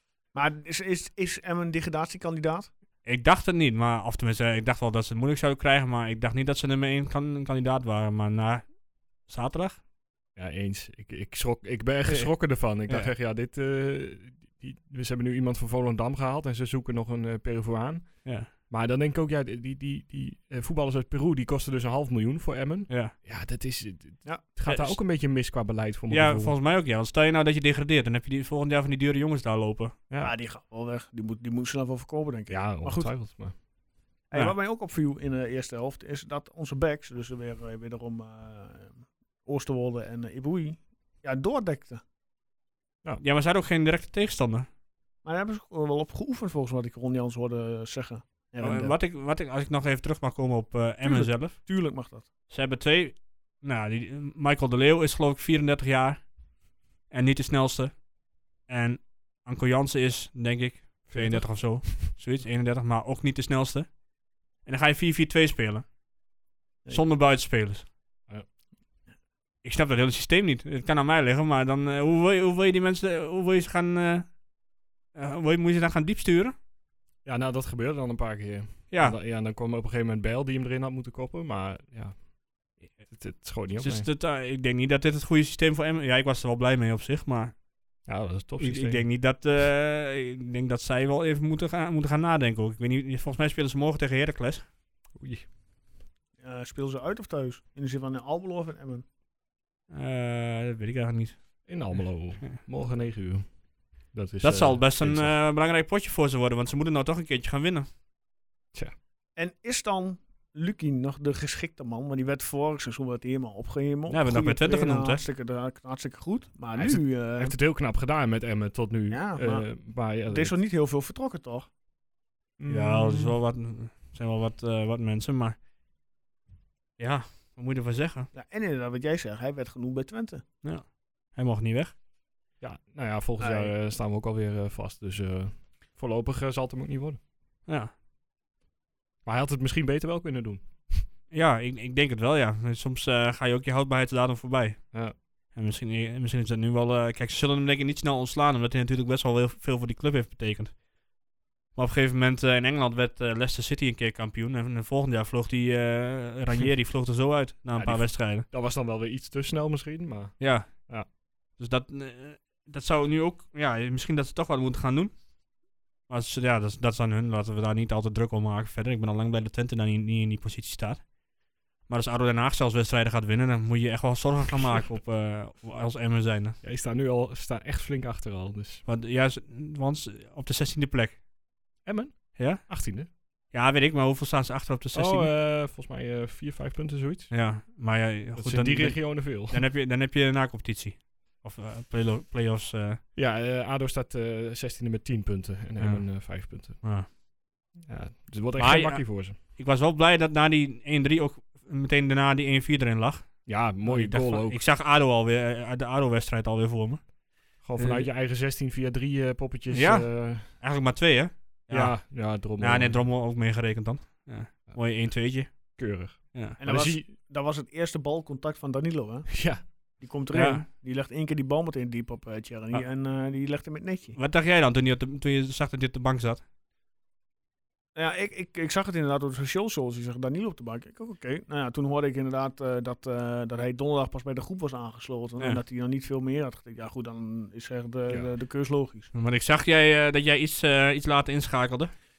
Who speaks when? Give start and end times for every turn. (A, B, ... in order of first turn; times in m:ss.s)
0:00.3-0:02.7 A
0:03.0-0:09.8 B
0:10.4-0:26.6 C
0:12.1-0:13.1 B
0:22.9-0:23.1 B
0:24.7-0:25.0 B
0:26.1-0:30.0 B
0:30.2-0:33.2 A
0:32.5-0:33.6 C
0:34.3-0:42.0 A
0:43.2-0:44.7 B
0:45.2-0:49.0 A
0:48.6-0:51.7 B
0:51.0-0:52.3 A
0:52.5-0:56.3 B
0:57.1-0:58.1 B
0:58.7-1:04.0 B
1:01.1-1:02.1 C
1:04.6-1:05.8 B
1:06.9-1:07.9 B
1:09.6-1:14.3 B
1:15.1-1:16.6 B
1:17.2-1:22.3 C
1:18.9-1:19.2 B
1:22.9-1:24.1 C
1:23.8-1:27.6 B
1:28.1-1:29.0 C
1:28.6-1:34.7 B
1:35.2-1:35.5 C
1:36.4-1:39.0 A
1:39.9-1:42.6 B
1:41.6-1:45.4 C
1:44.4-1:47.9 B
1:49.4-1:57.5 A
1:54.1-1:55.2 B
1:56.8-2:00.6 C
1:59.1-2:01.7 A
2:02.6-2:03.4 C
2:02.7-2:05.6 B
2:07.0-2:08.3 B
2:08.3-2:10.4 A
2:10.6-2:11.9 B
2:12.6-2:17.2 C
2:13.4-2:13.7 A
2:17.7-2:17.9 B
2:19.2-2:21.1 C
2:21.3-2:24.9 B
2:25.5-2:30.8 B
2:31.8-2:38.5 B
2:37.7-2:41.1 C
2:40.4-2:45.2 B
2:46.1-2:51.1 B
2:51.9-2:56.6 B
2:56.6-2:58.8 C
2:58.8-3:01.2 B
3:01.8-3:03.1 C
3:02.4-3:02.7 B
3:03.5-3:05.3 B
3:04.9-3:07.4 C
3:07.3-3:13.0 B
3:08.4-3:09.6 C
3:13.2-3:17.1 C
3:15.8-3:17.1 B
3:17.8-3:19.4 C
3:18.6-3:27.1 B
3:23.5-3:24.6 C
3:27.6-3:30.5 C
3:27.8-3:28.1 B
3:29.7-3:36.6 B
3:31.7-3:33.1 C
3:34.7-3:35.0 C
3:35.8-3:37.1 C
3:36.6-3:44.2 A
3:39.3-3:39.6 C
3:40.3-3:40.6 B
3:44.2-3:46.4 B
3:48.0-3:59.1 A
3:59.1-4:01.9 B